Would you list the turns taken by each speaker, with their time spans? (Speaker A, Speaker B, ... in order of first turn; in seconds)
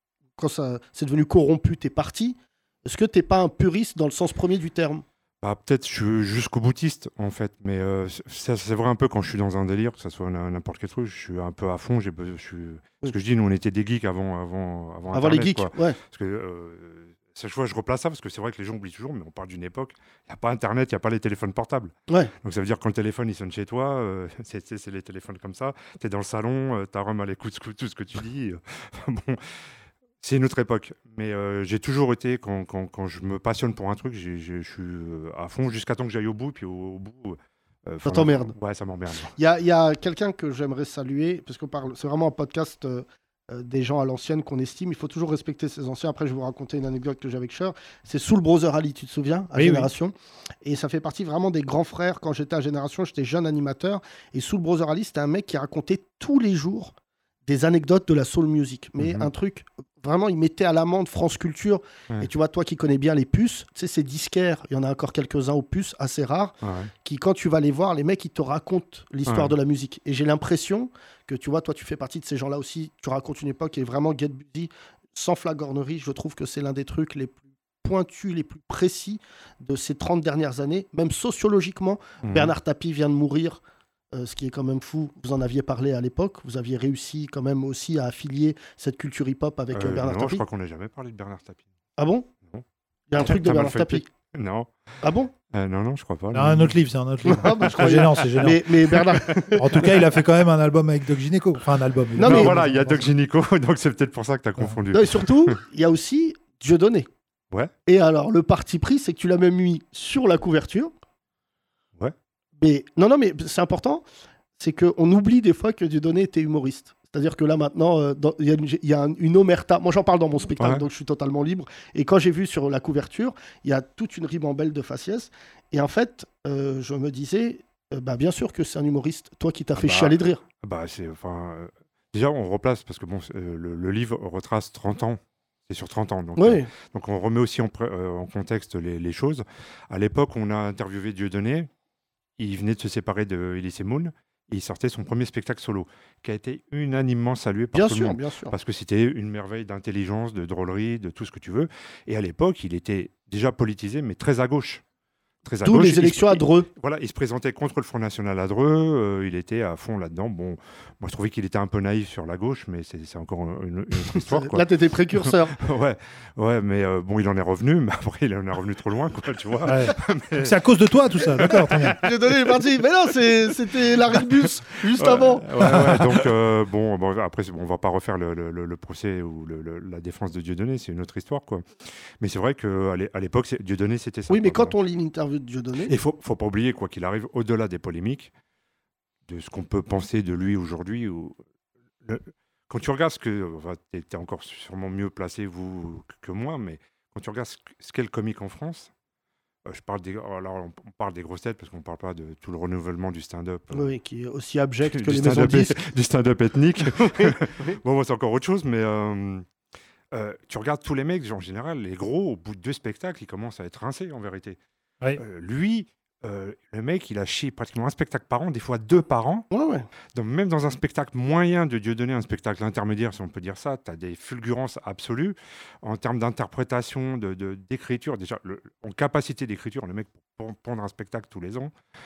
Speaker A: 0.4-5.0, 15.1-16.0, 38.0-38.5, 39.4-56.9, 57.5-90.4, 92.0-92.3, 93.1-94.0, 95.0-95.3, 97.3-99.9, 102.2-102.6, 104.9-107.1, 107.9-110.9, 112.6-114.0, 114.6-130.4, 136.4-136.7, 147.7-148.6, 155.6-156.7, 164.1-165.6, 171.8-176.2, 184.3-185.9, 203.7-205.8, 206.9-207.8, 219.5-219.9
Speaker B: 5.4-29.4, 30.2-39.4, 59.0-59.3, 66.6-66.9, 69.3-69.5, 82.2-82.5, 89.7-91.7, 93.2-94.7, 95.5-96.8, 97.5-99.4, 102.2-105.6, 120.6-120.9, 129.8-141.7, 142.4-154.8, 155.4-170.6, 171.2-172.0, 174.9-181.6, 182.2-184.8, 185.8-188.3, 189.3-191.4, 192.0-198.9, 199.7-203.9, 204.8-209.5, 210.1-214.6, 215.2-219.5, 220.2-231.7
Speaker C: 49.5-49.9, 96.3-98.7, 99.6-103.1, 169.7-172.0